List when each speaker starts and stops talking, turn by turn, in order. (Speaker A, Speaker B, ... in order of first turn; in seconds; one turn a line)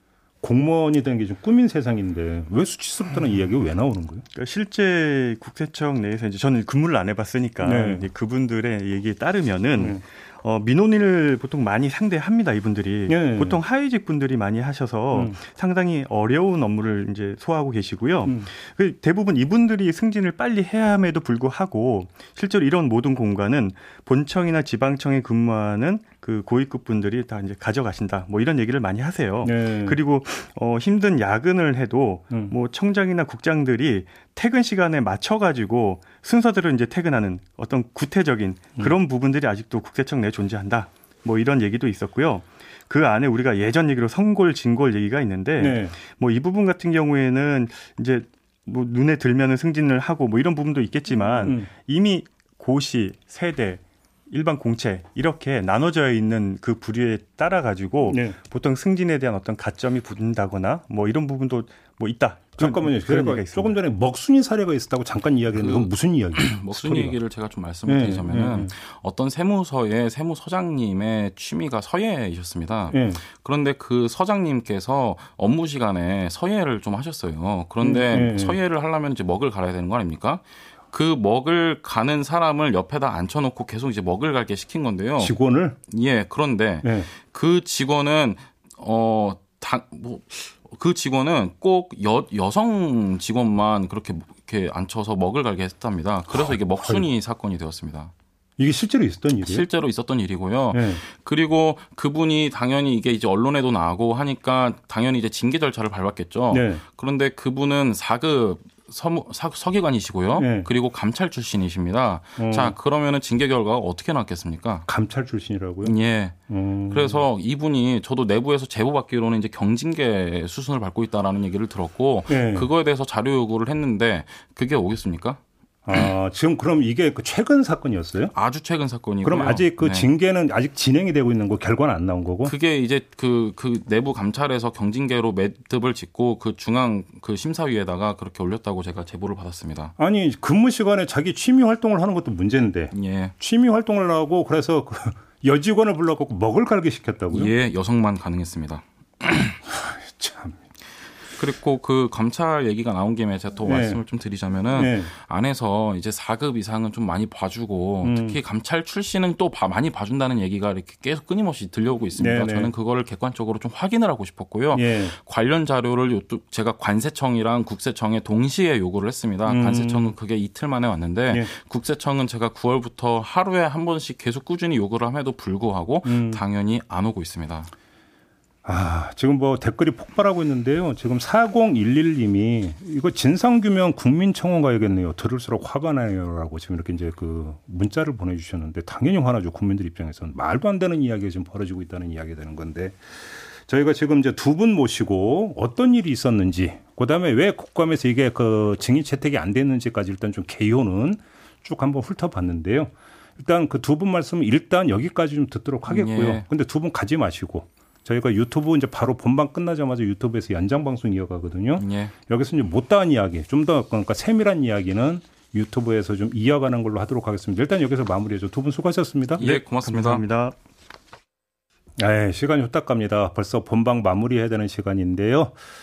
Speaker A: 0.4-4.2
Speaker B: 4.3-63.7
Speaker A: 7.6-8.1
Speaker A: 9.8-10.0
Speaker A: 13.1-13.6
Speaker A: 29.4-30.0
Speaker A: 45.6-45.9
Speaker A: 51.4-51.7
Speaker A: 58.1-58.4
Speaker A: 62.6-67.2
Speaker C: 65.5-85.3
Speaker A: 67.8-68.7
Speaker A: 72.9-73.2
Speaker A: 77.8-78.6
Speaker A: 85.2-85.8
Speaker C: 85.9-98.1
Speaker A: 86.8-87.1
Speaker A: 96.3-97.0
Speaker A: 98.6-99.6
Speaker C: 99.4-114.8
Speaker A: 100.7-101.0
Speaker A: 106.5-106.8
Speaker A: 110.3-110.7
Speaker A: 112.4-112.8
Speaker A: 114.9-116.0
Speaker C: 115.8-125.4
Speaker A: 116.5-117.2
Speaker A: 122.3-122.7
Speaker A: 125.8-128.3
Speaker C: 128.3-130.1
Speaker A: 129.2-132.5
Speaker C: 132.4-139.9
Speaker A: 140.0-147.5
Speaker C: 142.9-143.3
Speaker C: 147.3-149.6
Speaker A: 149.7-150.6
Speaker C: 151.3-177.7
Speaker A: 153.6-154.0
Speaker A: 154.7-155.1
Speaker A: 158.0-158.4
Speaker A: 162.2-162.7
Speaker A: 164.7-165.1
Speaker A: 169.5-170.1
Speaker A: 176.0-176.4
Speaker A: 178.6-219.4
Speaker C: 205.8-206.4
Speaker C: 211.8-212.1
Speaker C: 219.4-220.2
Speaker B: 219.4-220.5
Speaker A: 222.0-225.6